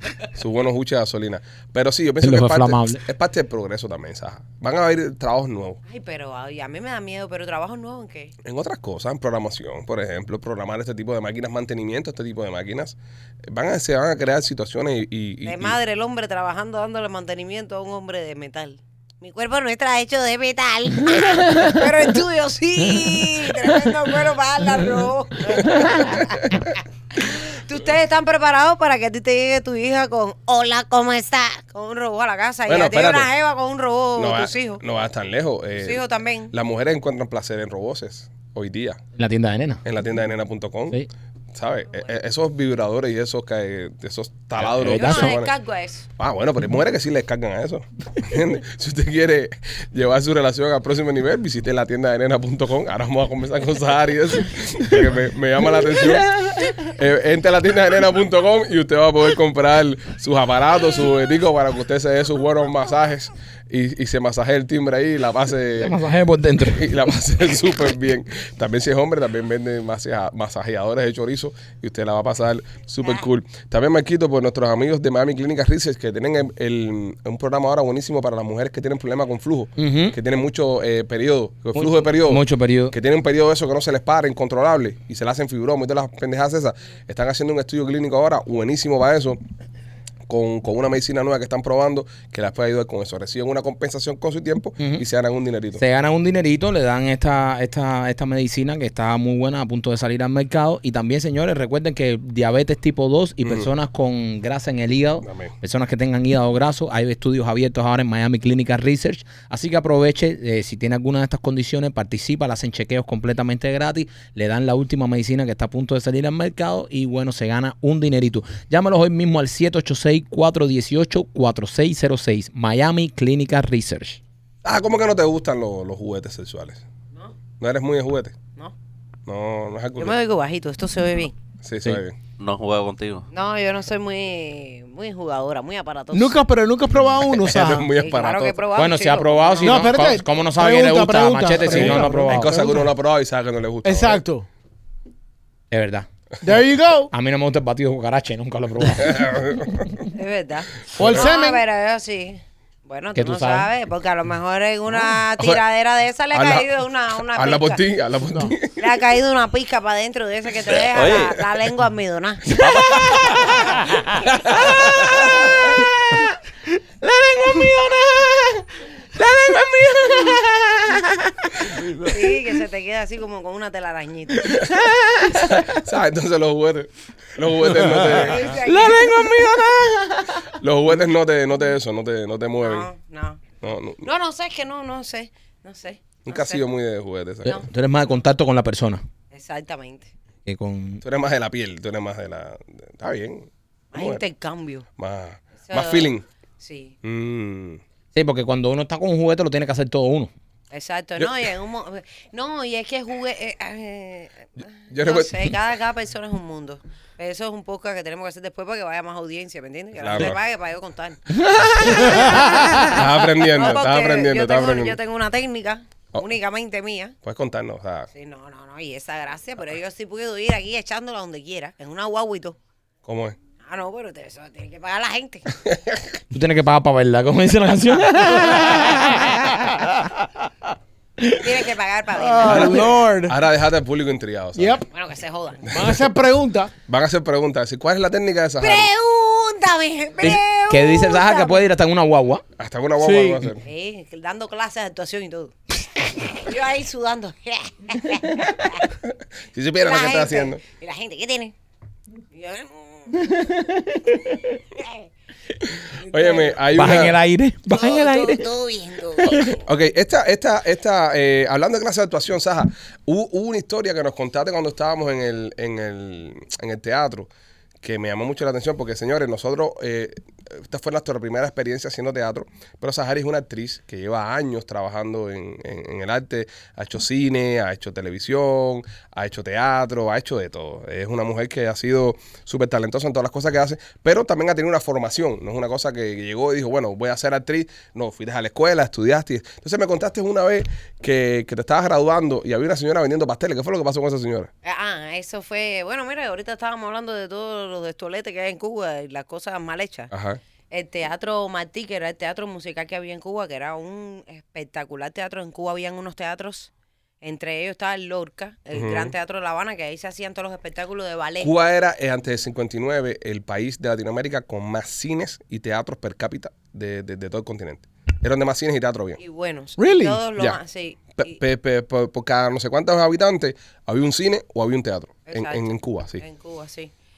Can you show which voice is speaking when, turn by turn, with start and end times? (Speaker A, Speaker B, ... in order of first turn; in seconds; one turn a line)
Speaker A: 0.3-5.8
Speaker B: 2.2-3.0
Speaker C: 5.9-8.3
Speaker A: 8.4-12.9
Speaker A: 13.5-15.8
Speaker C: 15.4-34.8
Speaker A: 26.2-26.7
Speaker A: 32.7-33.3
Speaker A: 34.1-39.0
Speaker C: 35.8-36.5
Speaker B: 39.1-39.8
Speaker A: 39.8-41.0
Speaker A: 41.5-45.5
Speaker B: 44.6-45.4
Speaker C: 44.9-46.1
Speaker A: 46.2-66.0
Speaker B: 56.0-56.8
Speaker B: 65.8-66.9
Speaker A: 66.7-89.4
Speaker B: 79.8-80.2
Speaker B: 81.7-82.9
Speaker A: 90.3-95.8
Speaker B: 95.8-124.2
Speaker A: 103.4-103.7
Speaker A: 105.2-105.5
Speaker A: 124.6-126.8
Speaker A: 127.6-128.4
Speaker A: 129.2-130.2
Speaker C: 130.0-131.3
Speaker A: 131.6-132.2
Speaker D: 132.4-133.3
Speaker C: 133.3-136.4
Speaker E: 136.1-137.9
Speaker A: 137.2-138.6
Speaker C: 137.9-139.9
Speaker B: 138.7-142.6
Speaker E: 139.6-142.8
Speaker A: 141.6-144.2
Speaker E: 143.8-144.4
Speaker B: 145.7-146.1
Speaker E: 146.4-147.1
Speaker B: 147.1-149.9
Speaker A: 149.0-149.9
Speaker C: 150.1-157.8
Speaker E: 150.9-151.6
Speaker A: 151.0-151.3
Speaker B: 153.1-153.7
Speaker A: 154.9-155.6
Speaker A: 156.3-156.7
Speaker A: 157.3-158.8
Speaker C: 158.8-163.1
Speaker D: 160.8-161.4
Speaker D: 162.5-163.7
Speaker B: 163.0-163.5
Speaker C: 164.4-165.5
Speaker B: 164.5-166.3
Speaker B: 167.0-171.8
Speaker C: 172.0-174.6
Speaker B: 174.5-175.7
Speaker A: 175.3-178.6
Speaker C: 178.1-179.2
Speaker B: 178.6-180.5
Speaker A: 180.5-182.9
Speaker C: 182.6-183.4
Speaker A: 183.6-184.1
Speaker C: 184.0-186.7
Speaker A: 186.2-187.6
Speaker B: 187.4-189.0
Speaker C: 189.3-190.1
Speaker B: 190.4-191.0
Speaker A: 191.0-194.2
Speaker C: 193.9-194.8
Speaker A: 195.0-196.2
Speaker C: 195.6-196.9
Speaker A: 197.0-197.8
Speaker B: 198.1-200.3
Speaker C: 200.7-217.2
Speaker A: 204.9-205.5
Speaker A: 209.9-210.4
Speaker B: 211.6-212.7
Speaker A: 212.8-215.0
Speaker A: 217.2-218.1
Speaker C: 218.1-222.6
Speaker A: 223.0-223.3
Speaker C: 223.6-225.5
Speaker A: 225.7-226.0
Speaker B: 226.3-229.9
Speaker C: 231.4-233.0
Speaker E: 232.2-233.3
Speaker A: 232.4-234.8
Speaker E: 234.6-234.9
Speaker C: 234.9-235.7
Speaker E: 235.7-236.7
Speaker A: 235.7-236.0
Speaker A: 236.9-238.9
Speaker C: 238.6-241.6
Speaker B: 240.2-242.4
Speaker A: 242.6-243.6
Speaker E: 243.0-243.4
Speaker C: 243.6-245.5
Speaker C: 246.3-248.9
Speaker A: 249.5-250.6
Speaker C: 249.8-251.5
Speaker C: 252.3-253.3
Speaker B: 253.2-254.6
Speaker C: 254.7-255.1
Speaker C: 256.0-256.6
Speaker A: 256.0-257.2
Speaker B: 256.7-258.5
Speaker C: 257.7-259.5
Speaker B: 259.2-259.6
Speaker A: 259.3-267.3
Speaker A: 267.8-294.5
Speaker C: 294.6-300.1
Speaker A: 300.1-300.4
Speaker C: 300.7-306.7
Speaker C: 307.2-311.5
Speaker A: 308.7-309.1
Speaker A: 311.4-319.2
Speaker C: 319.2-321.4
Speaker E: 319.8-320.2
Speaker A: 321.1-326.2
Speaker C: 325.3-326.9